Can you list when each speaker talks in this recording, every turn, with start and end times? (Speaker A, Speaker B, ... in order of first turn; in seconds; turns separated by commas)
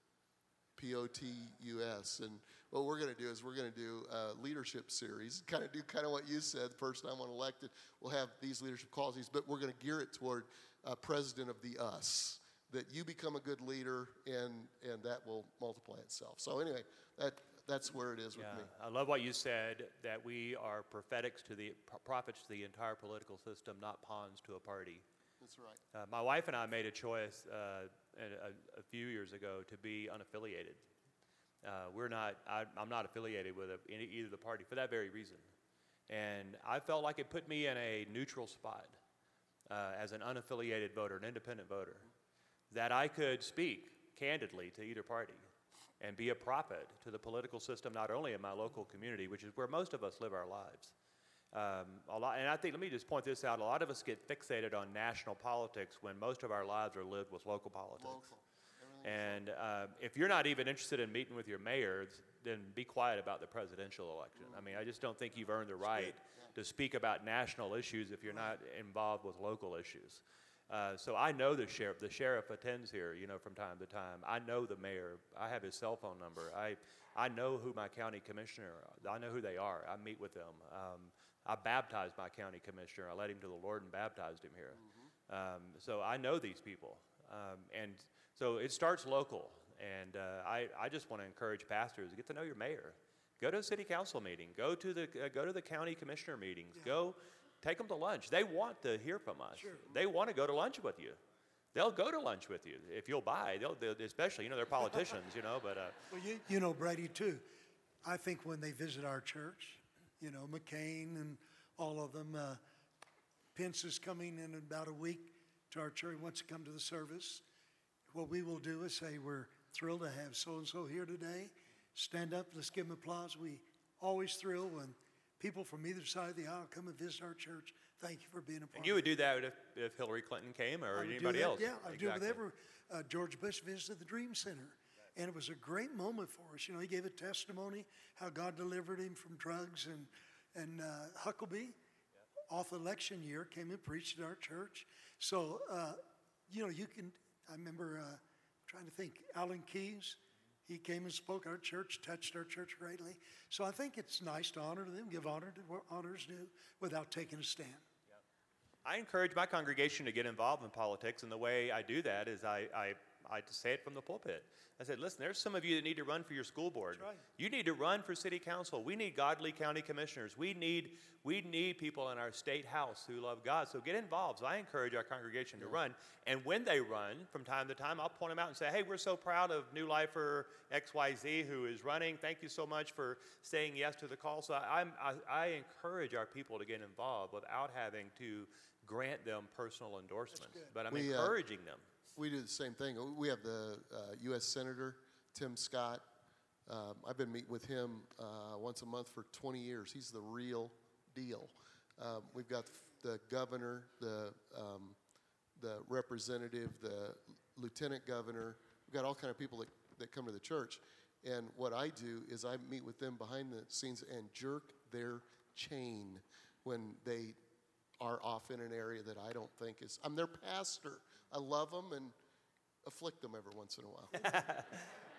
Speaker A: 0.8-18.7, Speaker B: 18.4-25.0, Speaker A: 25.4-25.8, Speaker B: 25.9-30.9, Speaker B: 31.6-35.5, Speaker B: 36.1-39.0, Speaker B: 39.7-42.1, Speaker B: 42.7-45.4, Speaker B: 46.0-50.9, Speaker B: 51.5-58.3, Speaker A: 58.0-59.4, Speaker B: 59.0-101.2, Speaker C: 99.5-99.8, Speaker B: 101.7-106.0, Speaker C: 106.1-107.4, Speaker C: 108.0-112.6, Speaker C: 113.5-117.4, Speaker C: 118.1-129.1, Speaker B: 128.7-132.4, Speaker C: 130.9-141.8, Speaker C: 142.5-157.8, Speaker B: 158.8-191.8, Speaker C: 166.9-167.2, Speaker C: 190.3-190.7, Speaker A: 190.9-191.3, Speaker A: 192.2-196.0, Speaker A: 196.7-205.0, Speaker A: 205.6-217.3, Speaker A: 218.0-222.1, Speaker A: 222.8-224.2, Speaker B: 224.1-224.9